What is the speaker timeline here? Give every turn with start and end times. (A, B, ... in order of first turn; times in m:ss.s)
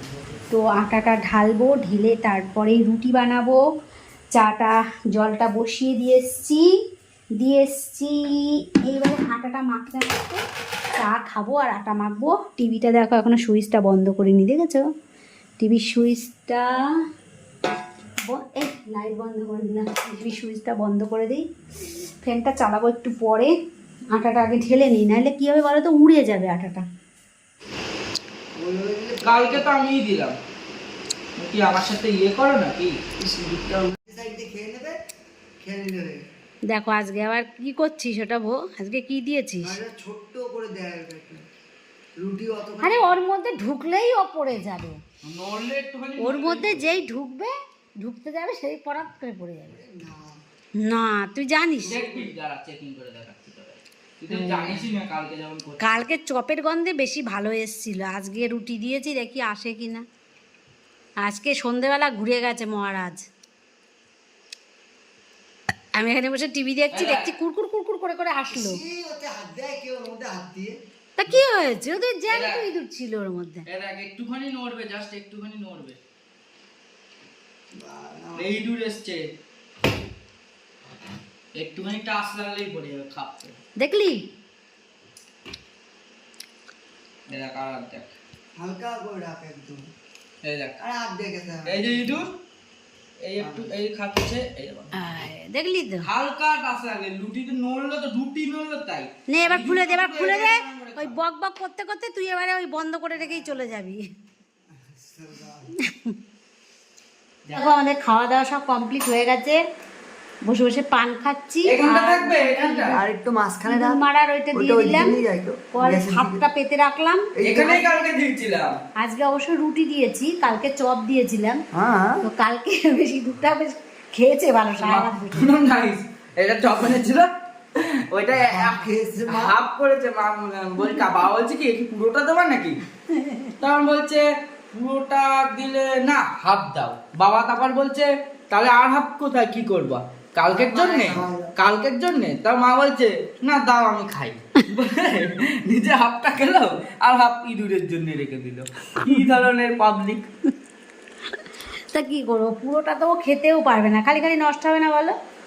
0:00.5-0:03.6 A
0:04.4-0:06.8 A
0:07.4-0:10.4 A
0:11.0-0:14.8 A
0:15.6-0:16.8 A
0:18.2-0:21.4 A
0:22.2-0:23.5 A
0:24.1-0:26.9 A
0:28.6-0:29.7 B
0:29.2-0:30.4 C
0:31.4-0:33.0 C
0:33.2-0:35.0 B
0:35.6-0:36.2 B
0:36.7-0:39.8 A
0:39.6-0:41.4 B
0:42.2-0:43.2 B
0:42.8-0:45.0 A
0:45.2-0:46.9 C
0:46.2-0:47.5 A
0:48.0-0:49.8 A
0:49.7-0:50.4 B
0:50.8-0:52.0 A
0:51.8-0:56.0 C
0:51.9-0:52.3 B
0:54.3-0:54.8 A
0:55.8-1:00.1 A
1:01.2-1:03.2 A
1:06.0-1:08.8 A
1:06.9-1:07.3 C
1:08.5-1:10.8 B
1:11.2-1:13.6 A
1:12.3-1:12.6 C
1:13.7-1:16.0 C
1:17.7-1:18.6 B
1:18.4-1:19.2 C
1:21.6-1:23.6 C
1:23.8-1:24.2 A
1:27.3-1:28.2 C
1:28.6-1:29.8 B
1:30.4-1:30.8 C
1:30.8-1:32.2 B
1:31.7-1:32.3 C
1:33.2-1:34.9 C
1:33.4-1:33.7 B
1:34.9-1:36.1 A
1:36.0-1:41.2 C
1:39.3-1:44.0 A
1:43.2-1:43.6 B
1:44.7-1:45.7 B
1:45.8-1:46.2 A
1:47.5-1:47.7 C
1:47.6-1:49.6 A
1:50.4-1:53.0 A
1:51.6-1:53.0 C
1:52.8-1:54.0 B
1:53.7-1:55.2 A
1:54.5-1:56.4 B
1:55.7-1:57.3 A
1:57.4-1:57.9 B
1:57.4-1:58.8 C
1:59.0-2:01.6 A
2:01.7-2:02.2 B
2:02.2-2:05.6 A
2:04.8-2:12.8 C
2:08.4-2:09.6 B
2:10.9-2:11.2 A
2:13.1-2:13.6 A
2:13.6-2:30.3 C
2:20.5-2:21.6 B
2:31.9-2:35.2 A